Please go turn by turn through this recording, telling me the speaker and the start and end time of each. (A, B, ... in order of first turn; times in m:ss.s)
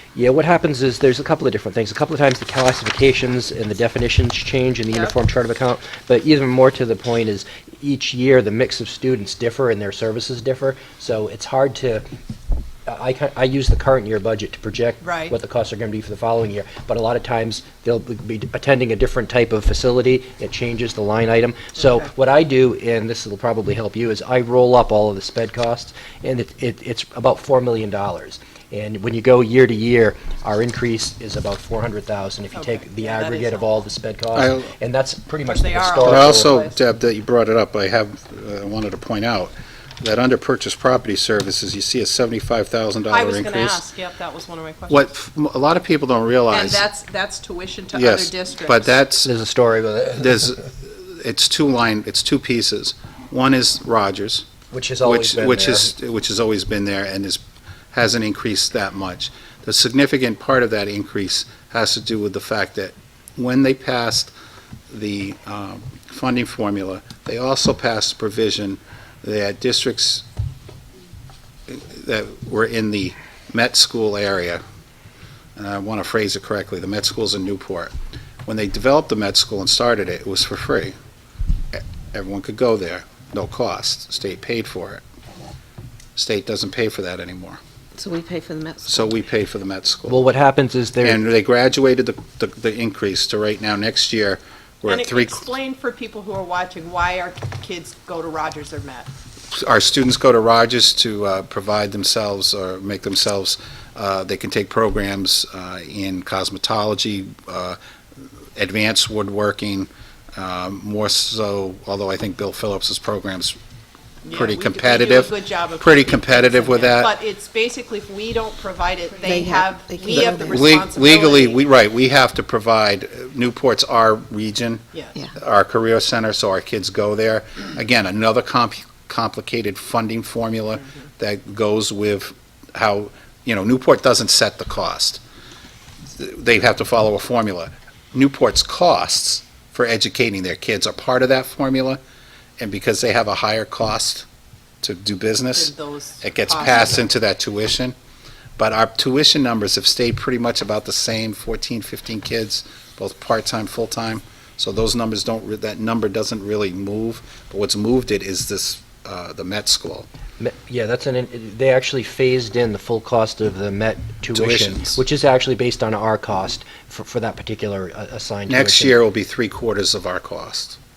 0:00.1-0:12.0 A
0:04.9-0:05.1 B
0:12.8-0:36.5 A
0:15.0-0:15.3 B
0:21.8-0:22.1 B
0:32.5-0:33.8 B
0:34.3-0:34.7 C
0:35.4-0:36.8 B
0:36.0-0:43.8 C
0:43.1-0:45.0 B
0:44.9-0:46.8 C
0:46.5-0:49.0 B
0:47.9-0:49.3 C
0:49.2-0:50.5 A
0:50.2-0:54.4 C
0:54.7-0:55.9 A
0:55.0-0:57.4 C
0:57.9-1:04.3 C
1:04.9-1:10.2 C
1:11.7-1:14.6 C
1:15.6-1:17.9 C
1:18.4-1:20.9 C
1:21.7-1:25.0 C
1:26.2-1:27.6 C
1:28.0-1:29.1 D
1:28.8-1:30.3 C
1:30.1-1:31.2 A
1:31.0-1:35.4 C
1:34.8-1:39.1 B
1:39.5-1:47.8 C
1:48.6-1:53.6 C
1:54.2-2:01.6 B
1:54.3-1:57.1 C
1:59.1-2:00.8 D
2:00.1-2:15.2 C
2:04.9-2:05.2 B
2:16.1-2:22.0 C
2:22.6-2:24.2 C
2:24.8-2:27.9 C
2:25.5-2:27.1 B
2:28.6-2:40.0 C
2:40.4-2:49.0 A
2:44.3-2:45.0 C
2:48.5-2:50.8 C